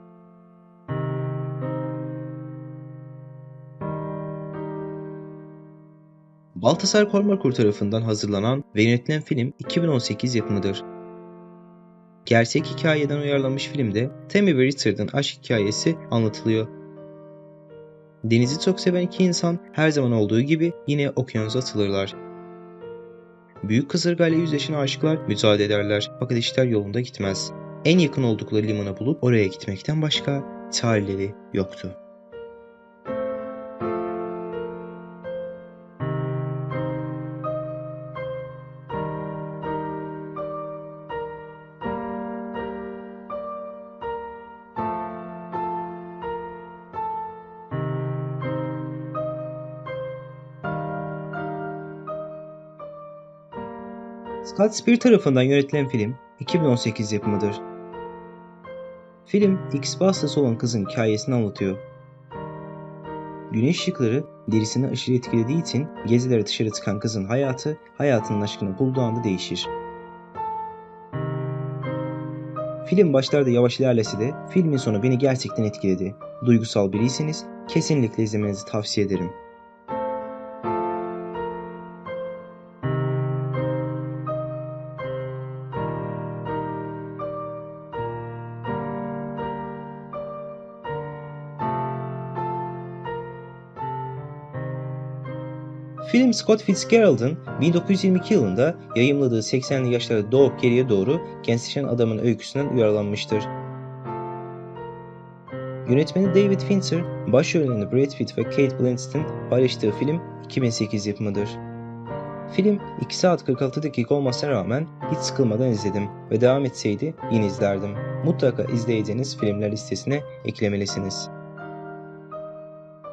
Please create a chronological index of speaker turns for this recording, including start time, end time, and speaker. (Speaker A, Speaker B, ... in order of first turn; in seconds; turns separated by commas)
Speaker A: 6.5-10.8, Speaker A: 12.2-16.7, Speaker A: 18.2-22.1, Speaker A: 23.6-32.0, Speaker A: 54.4-57.6, Speaker A: 59.2-61.8, Speaker A: 63.5-69.7, Speaker A: 72.8-79.4, Speaker A: 96.0-103.5, Speaker A: 105.8-111.6, Speaker A: 112.5-121.3